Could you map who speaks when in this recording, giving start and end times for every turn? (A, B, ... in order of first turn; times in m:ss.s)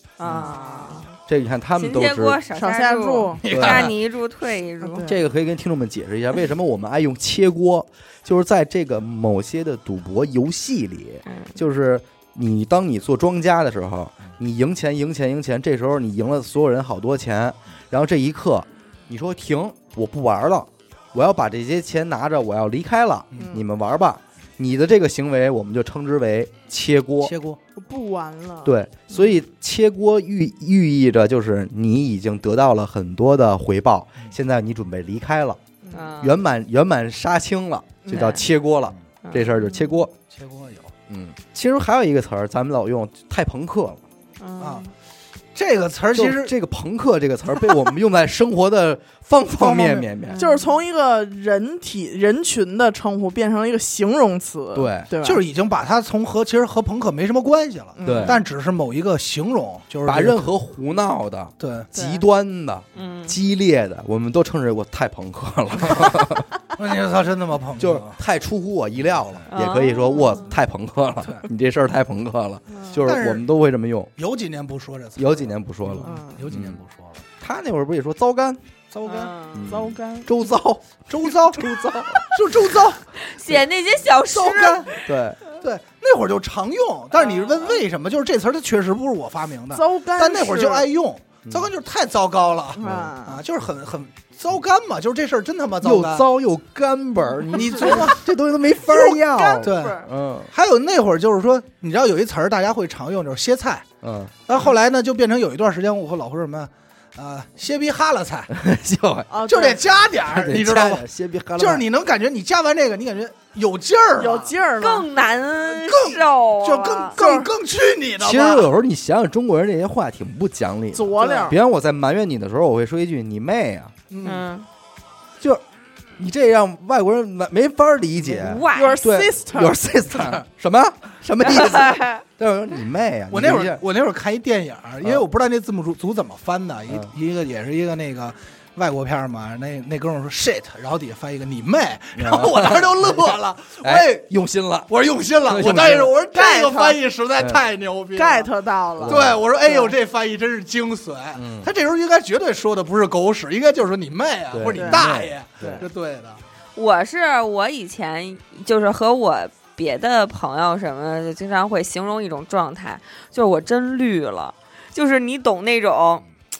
0:00.2-0:01.1 A
0:00.2-0:00.5 B
0:00.2-0:01.1 C
0:01.3-0:02.4 D
0:01.8-0:05.1 A
0:02.5-0:03.4 C
0:03.4-0:03.9 B
0:03.5-0:03.9 D
0:04.8-0:05.2 C
0:05.0-0:27.3 D
0:11.3-0:11.5 A
0:23.3-0:23.6 C
0:27.2-0:27.6 B
0:27.7-0:28.7 C
0:28.6-0:35.6 D
0:35.8-0:36.1 C
0:35.9-0:36.4 A
0:36.2-0:40.1 D
0:38.1-0:38.4 A
0:38.1-0:38.4 C
0:39.2-0:39.6 A
0:40.3-0:40.9 B
0:41.1-0:44.0 D
0:44.4-0:44.9 A
0:44.6-0:44.8 B
0:45.5-0:46.5 B
0:46.1-0:50.4 D
0:50.3-0:50.7 A
0:50.4-0:55.4 C
0:54.7-0:55.1 D
0:55.2-1:00.5 B
0:58.0-0:58.4 C
0:58.0-0:58.4 D
1:00.0-1:06.5 D
1:01.6-1:01.9 B
1:01.9-1:02.2 C
1:02.9-1:03.4 A
1:06.7-1:08.2 B
1:07.8-1:14.1 D
1:09.5-1:10.5 A
1:13.0-1:13.4 B
1:14.2-1:17.2 B
1:15.2-1:16.8 D
1:16.0-1:16.4 C
1:17.4-1:18.6 D
1:18.9-1:19.3 B
1:19.0-1:19.6 A
1:19.5-1:22.4 D
1:19.6-1:20.3 C
1:21.1-1:21.7 B
1:22.3-1:23.5 B
1:23.2-1:25.0 A
1:24.3-1:24.9 B
1:25.0-1:25.4 D
1:25.5-1:36.2 B
1:27.2-1:27.6 A
1:29.7-1:30.9 C
1:31.5-1:31.7 D
1:32.8-1:33.4 C
1:32.8-1:33.1 D
1:35.8-1:40.5 D
1:37.5-1:38.2 B
1:37.5-1:38.1 C
1:38.9-1:40.0 C
1:39.6-1:40.0 B
1:40.5-1:43.8 B
1:44.0-1:44.3 D
1:44.5-1:48.5 B
1:48.5-1:49.3 D
1:49.3-1:49.8 C
1:49.5-1:51.0 B
1:50.2-1:51.8 D
1:51.6-1:54.5 B
1:54.2-1:55.1 C
1:54.8-1:57.2 A
1:55.7-1:58.7 B
1:57.1-1:57.5 C
1:58.2-2:03.9 D
2:00.9-2:01.6 C
2:04.1-2:04.4 B
2:04.2-2:04.6 A
2:06.2-2:13.8 D
2:08.3-2:09.0 A
2:08.7-2:09.8 C
2:11.5-2:12.2 A
2:13.3-2:24.2 B
2:22.2-2:24.9 D
2:24.9-2:28.5 B
2:25.4-2:26.1 D
2:26.3-2:27.0 C
2:28.2-2:29.9 C
2:29.0-2:29.4 D
2:29.0-2:36.4 B
2:31.3-2:31.7 D
2:34.5-2:35.8 D
2:34.7-2:35.0 C
2:35.6-2:35.8 C
2:36.8-2:46.2 A